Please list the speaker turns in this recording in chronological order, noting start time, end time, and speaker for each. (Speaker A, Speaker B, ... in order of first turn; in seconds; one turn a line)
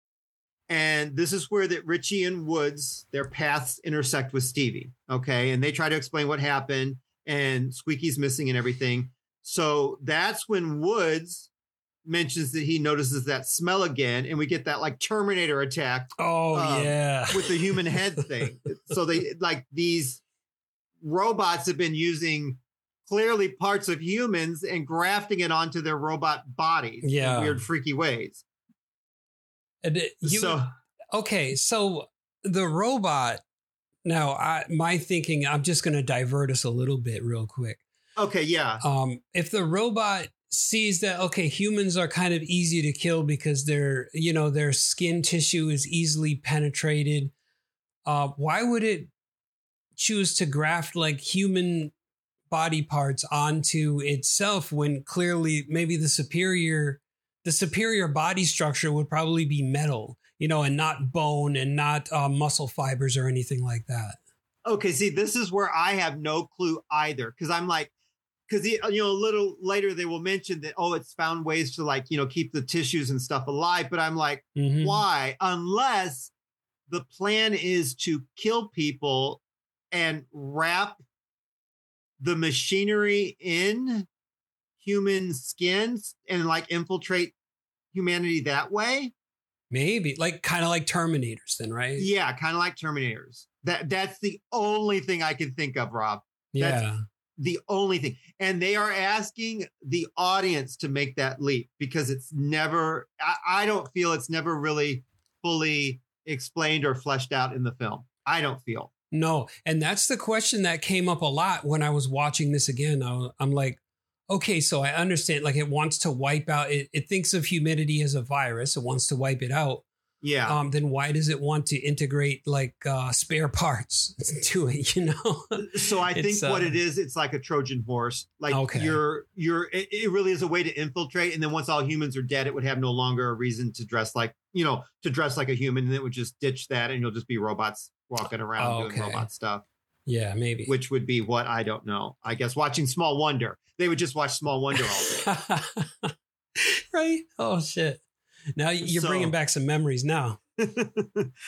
Speaker A: 0.7-11.5
Speaker A: 12.1-20.2
Speaker B: 16.2-18.5
Speaker A: 21.0-28.4
Speaker B: 27.0-27.6
Speaker B: 29.8-33.4
Speaker A: 30.2-30.7
Speaker B: 34.0-37.8
Speaker A: 38.2-38.8
Speaker B: 38.8-47.3
Speaker B: 48.0-49.1
Speaker B: 50.0-51.9
Speaker B: 52.5-64.2
Speaker A: 64.7-67.9
Speaker A: 68.5-76.3
Speaker B: 74.6-75.0
Speaker A: 76.9-79.4
Speaker A: 79.9-81.0
Speaker A: 82.2-84.1
Speaker A: 84.8-87.3
Speaker A: 87.9-89.1
Speaker B: 89.7-92.1
Speaker A: 92.0-96.9
Speaker B: 96.5-97.0
Speaker A: 97.4-108.9
Speaker B: 109.1-119.8
Speaker A: 120.2-120.6
Speaker B: 120.5-126.7
Speaker A: 125.6-139.6
Speaker B: 128.5-129.0
Speaker B: 138.6-139.3
Speaker B: 140.1-140.7
Speaker A: 140.7-145.2
Speaker B: 144.8-148.0
Speaker B: 148.6-150.4
Speaker A: 148.8-149.3
Speaker A: 150.6-151.3